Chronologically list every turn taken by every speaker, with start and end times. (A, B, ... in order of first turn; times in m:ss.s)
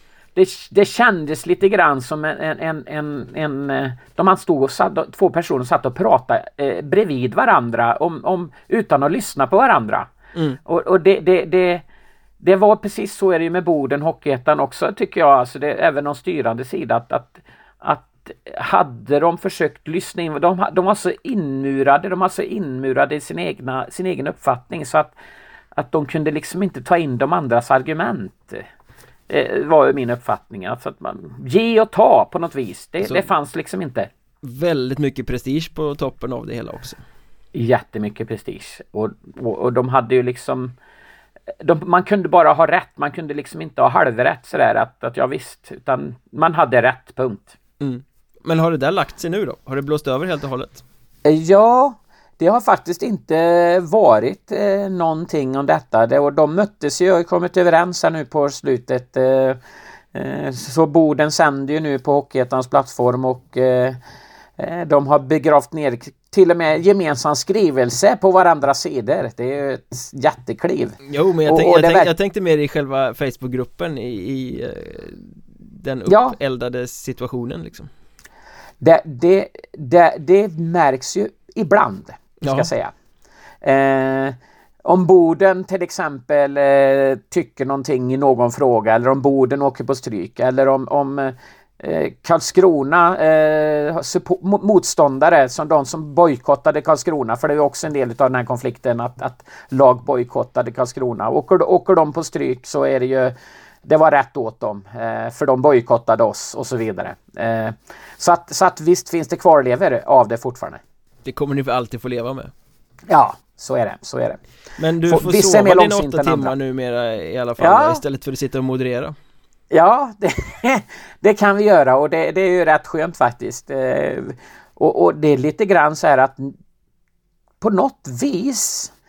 0:00.4-0:10.1 A
0:10.6-0:11.8 A
0:12.4-0:25.2 A
0:25.8-0:28.6 A
0:29.3-0:34.1 A
0:34.4-0:37.0 B
0:37.5-0:40.7 A
0:41.6-0:47.6 A
0:47.8-0:50.8 B
0:51.2-0:59.6 A
1:00.1-1:04.0 A
1:04.6-1:12.1 A
1:11.0-1:17.9 B
1:16.1-1:16.4 A
1:18.8-1:22.9 A
1:22.4-1:22.7 B
1:23.6-1:50.8 A
1:51.2-1:52.5 B
1:53.1-1:54.4 A
1:54.8-1:59.2 B
1:55.1-1:56.5 A
1:57.6-1:58.0 A
1:59.7-2:06.6 A
2:07.6-2:08.9 A